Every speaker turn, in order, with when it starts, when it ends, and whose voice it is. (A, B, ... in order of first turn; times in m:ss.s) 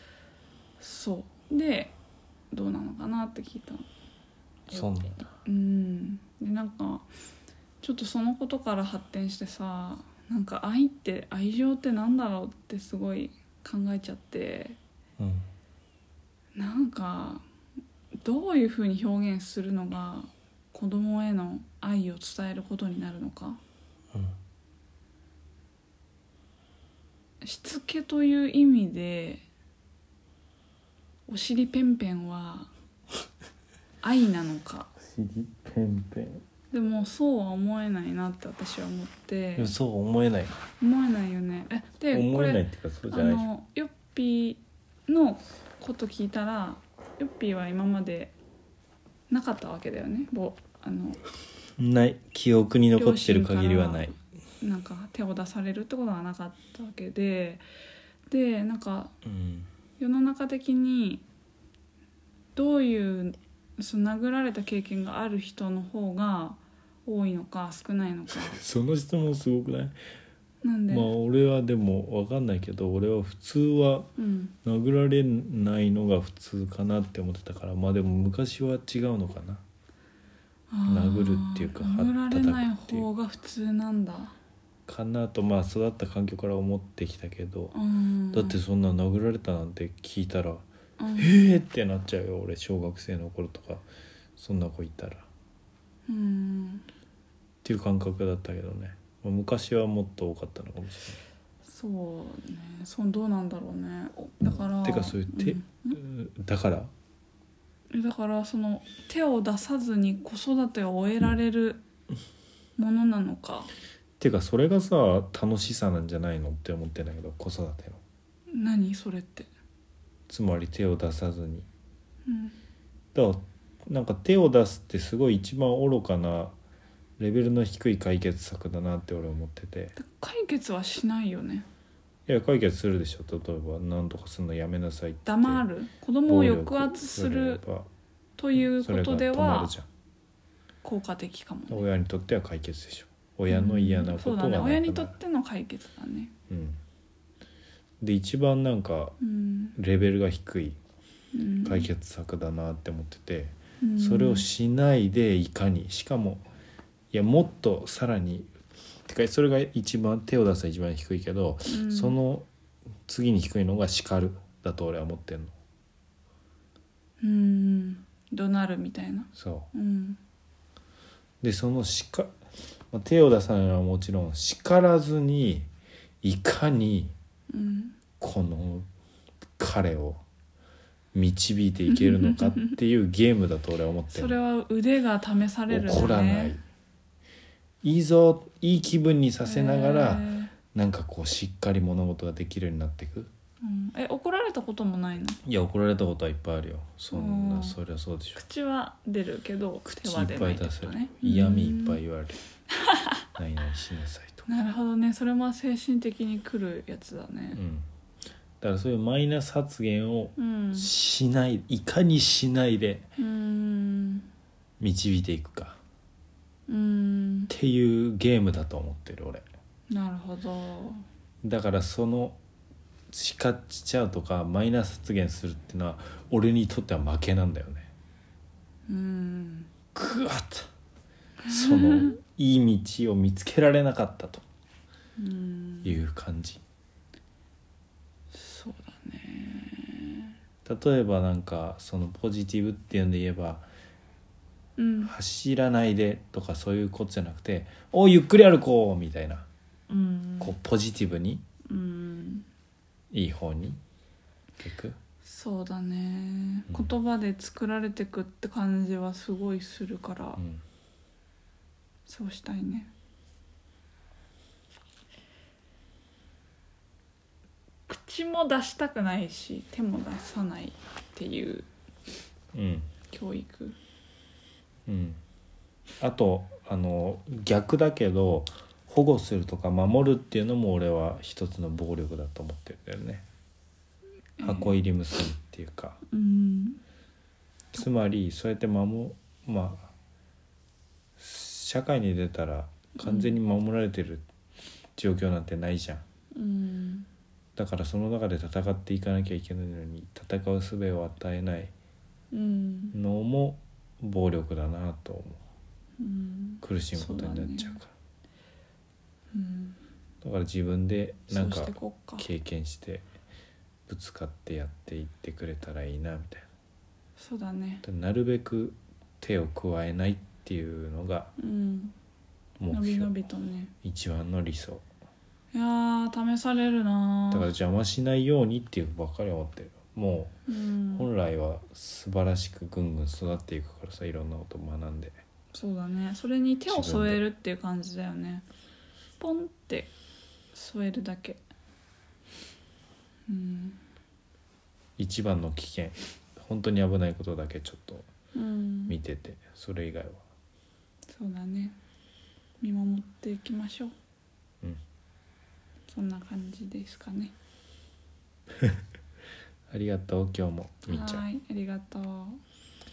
0:00.8-0:02.0 A
0:02.5-0:03.9 A
0:04.7-0:07.1 A
0:04.7-0:05.3 B
0:07.8-0:14.8 A
0:15.2-0:15.5 B
0:16.6-0:17.4 A
0:18.2-0:23.6 A
0:27.4-0:29.4 A
0:31.3-0:32.7 A
0:34.0-0:34.9 A
0:35.0-0:36.4 B
0:36.7-0:39.8 A
0:39.6-0:40.6 B
0:40.8-0:48.4 A
0:42.1-0:43.5 B
0:49.3-0:51.2 A
0:51.8-0:54.1 B
0:53.0-0:57.6 A
0:58.3-0:59.1 A
0:59.2-0:59.7 B
1:00.0-1:01.2 A
1:02.6-1:08.6 A
1:08.3-1:10.0 B
1:10.6-1:11.1 A
1:10.9-1:14.1 B
1:14.2-1:14.6 A
1:14.6-1:19.6 B
1:20.7-1:24.4 A
1:20.9-1:23.1 B
1:24.9-1:27.8 B
1:27.7-1:28.6 A
1:28.3-1:30.6 B
1:31.0-1:31.4 A
1:31.2-1:33.8 B
1:34.4-1:35.3 B
1:36.1-1:36.9 A
1:37.6-1:41.2 B
1:41.6-1:46.0 A
1:44.8-1:46.9 B
1:47.9-1:51.8 A
1:52.8-1:53.7 A
1:54.2-1:58.0 B
1:58.5-1:59.5 A
2:00.3-2:01.7 B
2:02.3-2:02.6 A
2:03.1-2:06.6 B
2:07.2-2:10.0 B
2:10.0-2:11.7 A
2:12.3-2:15.7 B
2:15.2-2:17.6 A
2:16.3-2:17.9 B
2:18.4-2:19.7 A
2:18.6-2:19.9 B
2:20.8-2:21.8 A
2:21.7-2:25.2 B
2:23.5-2:26.3 A
2:26.5-2:26.8 B
2:28.0-2:29.2 B
2:29.2-2:29.8 A
2:29.8-2:30.8 B
2:31.3-2:31.9 A
2:31.6-2:36.5 B
2:33.8-2:34.5 A
2:37.1-2:38.5 B
2:39.1-2:42.5 B
2:41.7-2:42.2 A
2:43.1-2:45.6 B
2:47.2-2:50.2 A
2:49.4-2:49.7 B
2:51.4-2:52.3 B
2:52.9-2:55.7 B
2:56.2-2:57.1 B
2:57.5-2:58.0 A
2:58.2-2:58.9 B
2:59.6-3:00.2 B
3:01.1-3:04.4 B
3:01.9-3:02.8 A
3:04.1-3:06.6 A
3:05.7-3:06.6 B
3:07.8-3:13.3 B
3:09.4-3:10.5 A
3:13.6-3:15.4 A
3:15.4-3:18.4 B
3:17.1-3:17.8 A
3:18.4-3:22.0 A
3:19.8-3:22.4 B
3:23.4-3:24.5 B
3:24.5-3:27.6 A
3:27.5-3:27.9 B
3:28.6-3:33.0 B
3:30.4-3:30.9 A
3:33.2-3:34.3 A
3:34.8-3:35.8 B
3:36.7-3:37.5 A
3:37.5-3:39.4 B
3:39.9-3:41.0 A
3:41.4-3:42.4 B
3:43.1-3:47.9 B
3:48.9-3:49.7 A
3:49.9-3:50.7 B
3:51.4-3:52.2 A
3:51.5-3:54.4 B
3:55.2-3:56.0 A
3:55.8-3:56.6 B
3:58.3-4:00.3 A
4:00.6-4:03.7 B
4:04.8-4:05.1 A
4:05.0-4:09.5 B
4:09.9-4:10.6 A
4:10.4-4:11.4 B
4:11.7-4:12.5 A
4:13.1-4:13.8 B
4:14.6-4:15.0 B
4:15.2-4:20.4 A
4:20.4-4:20.6 B
4:22.1-4:22.9 A
4:27.9-4:31.7 A
4:32.5-4:32.9 B
4:33.1-4:33.8 A
4:34.9-4:35.2 B
4:36.0-4:43.3 B
4:44.4-4:44.8 A
4:44.4-4:46.0 B
4:46.1-4:46.8 A
4:47.7-4:49.9 B
4:51.2-4:54.2 B
4:53.0-4:53.4 A
4:55.0-4:56.0 B
4:56.3-4:57.1 A
4:57.6-5:01.7 B
5:02.3-5:03.0 A
5:02.9-5:05.4 B
5:06.0-5:07.8 A
5:06.6-5:07.9 B
5:09.3-5:09.8 A
5:10.2-5:13.1 B
5:11.3-5:12.3 A
5:13.9-5:16.5 B
5:17.2-5:17.8 A
5:17.8-5:21.3 B
5:21.4-5:22.0 A
5:22.6-5:23.1 B
5:22.7-5:23.7 A
5:23.8-5:24.9 B
5:25.5-5:27.5 A
5:27.3-5:30.4 B
5:30.5-5:31.1 A
5:30.9-5:35.2 B
5:35.5-5:38.5 A
5:36.7-5:37.3 B
5:39.2-5:39.9 A
5:40.5-5:41.4 A
5:43.3-5:43.8 A
5:45.0-5:48.1 B
5:48.3-5:49.0 A
5:48.9-5:50.2 B
5:51.1-5:51.8 A
5:52.6-5:54.0 A
5:55.9-5:57.4 A
5:59.7-6:01.3 B
6:00.9-6:02.4 A